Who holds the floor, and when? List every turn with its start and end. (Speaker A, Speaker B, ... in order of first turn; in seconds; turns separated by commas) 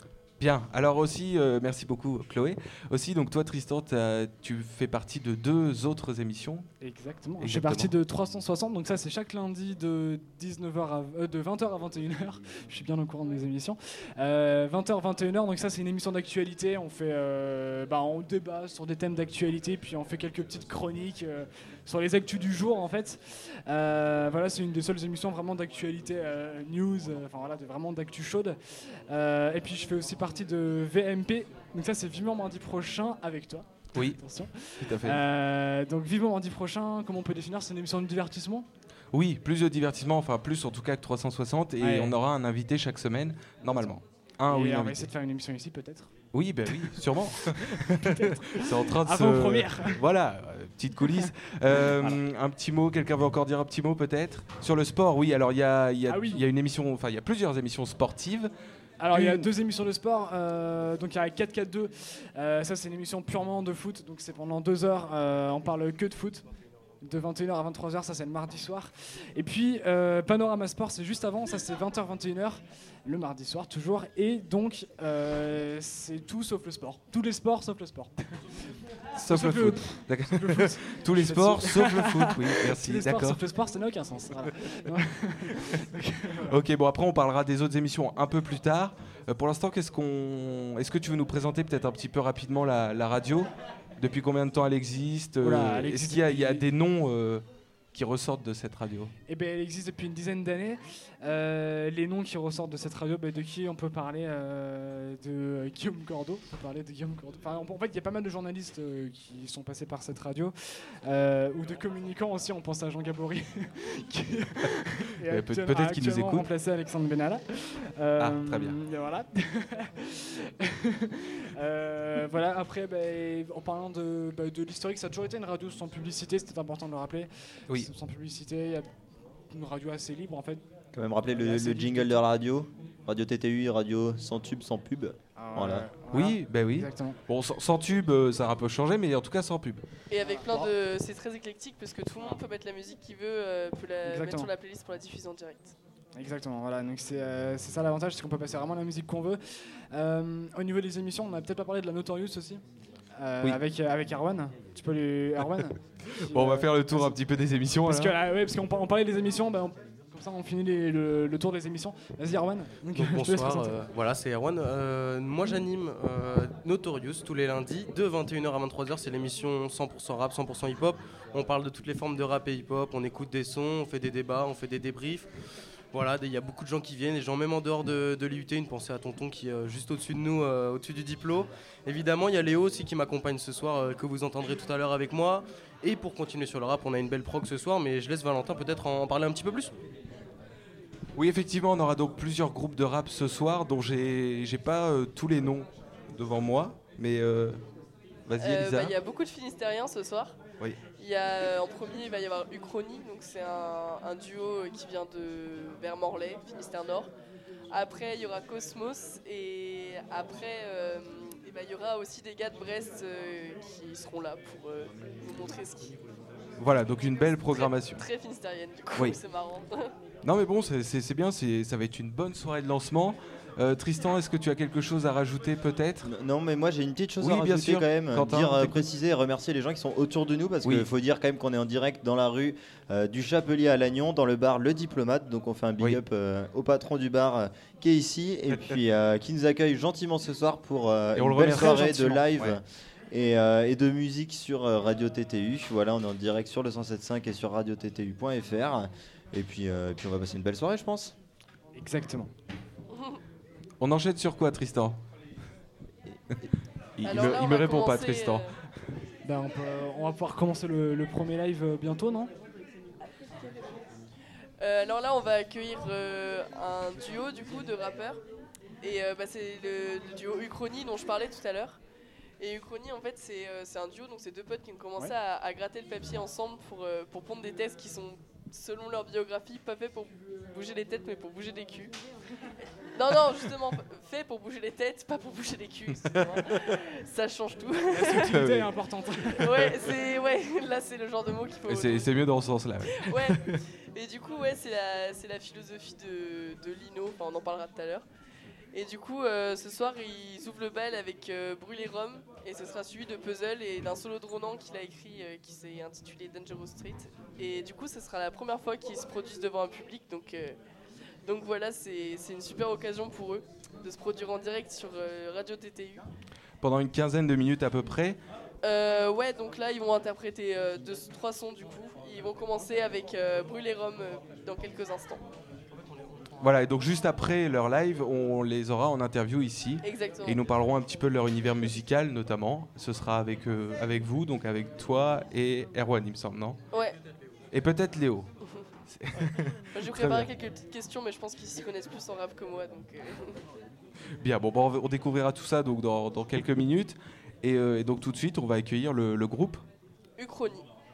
Speaker A: 0.4-6.7, Speaker B: 6.8-38.6, Speaker A: 7.4-7.9, Speaker A: 34.8-35.2, Speaker A: 39.1-45.0, Speaker B: 41.8-42.1, Speaker B: 43.7-44.0, Speaker B: 44.5-46.1, Speaker A: 46.3-58.5, Speaker B: 46.7-50.0, Speaker B: 51.8-52.1, Speaker B: 56.1-56.4, Speaker B: 59.0-66.4, Speaker A: 59.1-59.5, Speaker B: 67.0-86.6, Speaker A: 79.2-83.4, Speaker A: 86.5-99.1, Speaker B: 95.4-96.6, Speaker B: 99.3-128.9, Speaker A: 115.3-116.4, Speaker A: 118.2-118.8, Speaker B: 129.5-130.6, Speaker C: 130.9-135.9, Speaker B: 131.2-132.2, Speaker B: 135.3-137.2, Speaker A: 136.1-139.8, Speaker D: 140.1-145.7, Speaker B: 140.2-140.7, Speaker B: 144.0-144.5, Speaker B: 146.1-149.4, Speaker B: 149.9-152.6, Speaker B: 153.2-157.2, Speaker A: 156.1-158.1, Speaker B: 157.8-163.8, Speaker E: 162.9-175.3, Speaker E: 175.9-189.7, Speaker A: 191.2-197.6, Speaker A: 198.3-198.9, Speaker D: 198.4-200.4, Speaker D: 201.0-207.1, Speaker D: 207.7-215.9, Speaker A: 216.6-218.0, Speaker D: 217.2-219.9, Speaker A: 220.2-226.1, Speaker C: 226.0-251.1, Speaker A: 227.2-228.7, Speaker A: 241.1-242.6, Speaker B: 251.8-252.3, Speaker D: 252.9-253.2, Speaker A: 253.8-255.0, Speaker A: 257.0-258.5, Speaker D: 257.0-258.5, Speaker B: 259.2-262.3, Speaker D: 264.6-268.2, Speaker D: 268.8-271.8, Speaker D: 272.4-281.9, Speaker D: 282.9-288.3, Speaker B: 287.9-289.7, Speaker A: 288.3-288.6, Speaker D: 289.3-292.2, Speaker A: 291.7-293.6, Speaker D: 292.9-298.0, Speaker D: 298.7-310.6, Speaker D: 311.2-316.1, Speaker A: 316.6-318.2, Speaker D: 318.6-325.2, Speaker A: 326.4-336.6, Speaker D: 329.8-330.4, Speaker D: 336.7-337.0, Speaker A: 337.5-338.3, Speaker A: 338.9-340.3, Speaker D: 339.8-343.4, Speaker A: 344.2-349.6, Speaker D: 350.2-350.6